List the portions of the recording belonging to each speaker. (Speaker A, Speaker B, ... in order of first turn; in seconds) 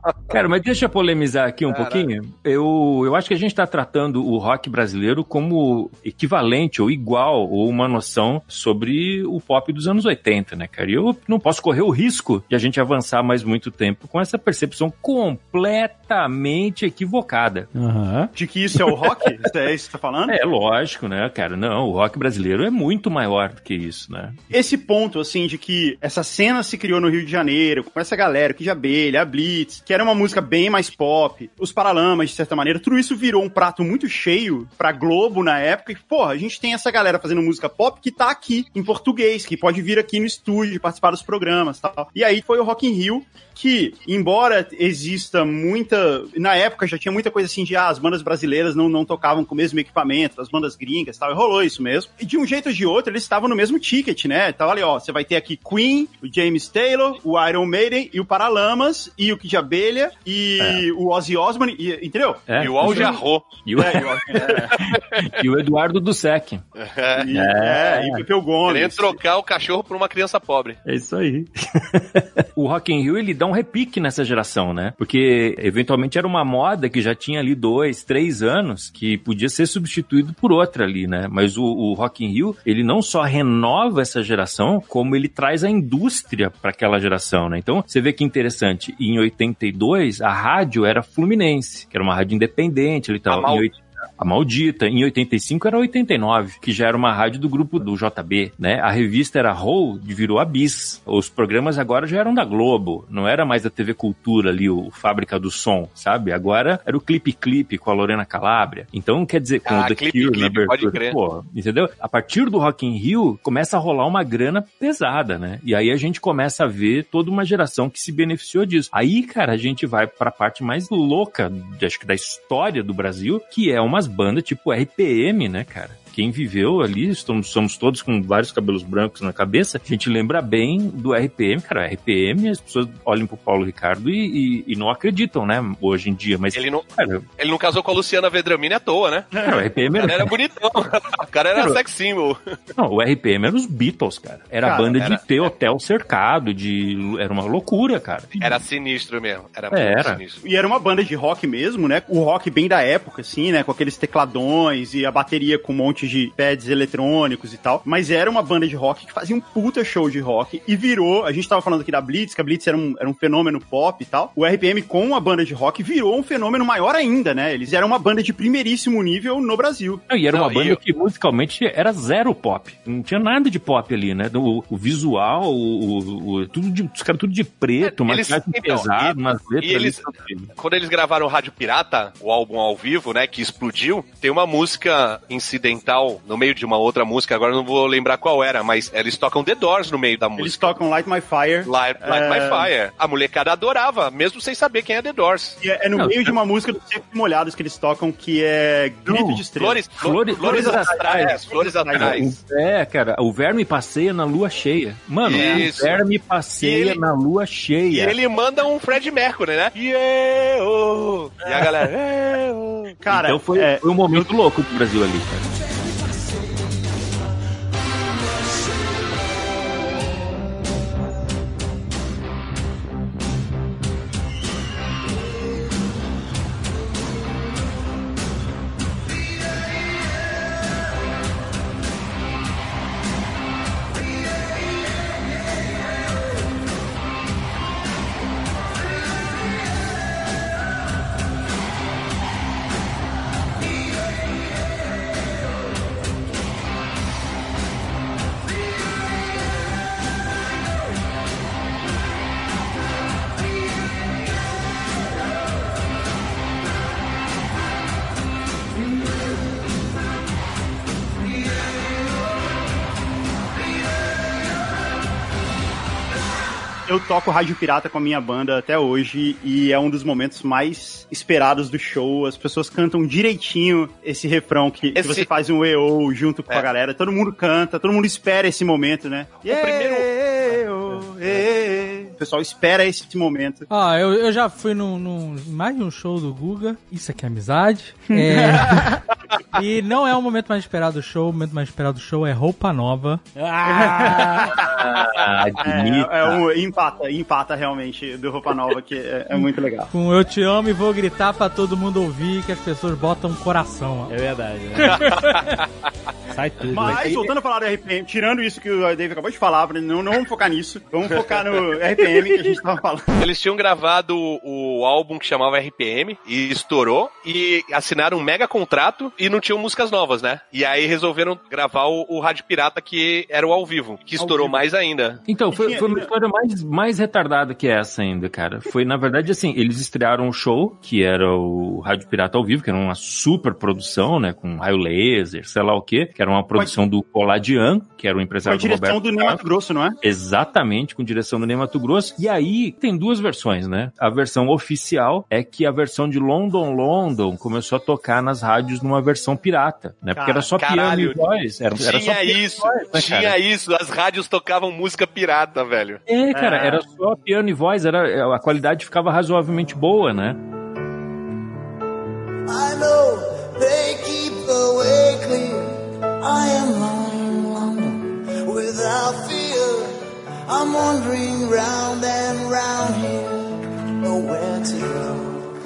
Speaker A: 0.3-17.7, 18.8-19.1, 20.3-24.4, 62.5-66.6, 67.3-68.2, 70.8-137.3, 139.4-140.3, 141.6-141.8, 142.8-148.6, 149.7-150.2, 170.1-180.5, 196.0-196.3, 199.1-199.4, 200.0-201.4, 201.9-208.2, 213.1-215.5, 294.7-296.4, 325.3-339.4, 340.0-353.4, 356.1-360.4
Speaker B: 1.7-2.0, 62.6-63.6, 64.4-65.3, 66.8-67.3, 68.7-70.8, 93.3-93.7, 109.7-111.2, 136.5-136.8, 137.4-139.3, 140.0-142.4, 148.4-150.4, 170.3-170.8, 177.8-190.8, 191.7-195.6, 199.6-202.3, 205.2-206.0, 206.6-207.0, 207.9-212.3, 274.9-275.3, 279.5-280.1, 311.1-311.4, 313.2-325.2, 350.6-351.2, 351.8-356.0
Speaker C: 17.8-18.3, 212.3-212.9, 293.4-294.6, 304.1-305.4, 306.3-307.3
Speaker D: 18.4-20.4, 24.5-63.2, 63.7-64.8, 67.2-69.2, 144.6-145.0, 150.4-170.0, 190.4-192.7, 195.6-202.2, 205.3-205.7, 213.0-214.3, 266.9-283.7, 293.7-295.1, 295.6-299.9, 306.7-313.1, 324.2-324.6, 325.5-326.1, 338.4-340.0, 350.1-350.5, 356.3-356.8
Speaker E: 283.7-289.0, 289.5-293.2, 299.9-304.1, 304.8-305.4
Speaker F: 362.5-369.9, 370.5-373.5, 374.0-375.3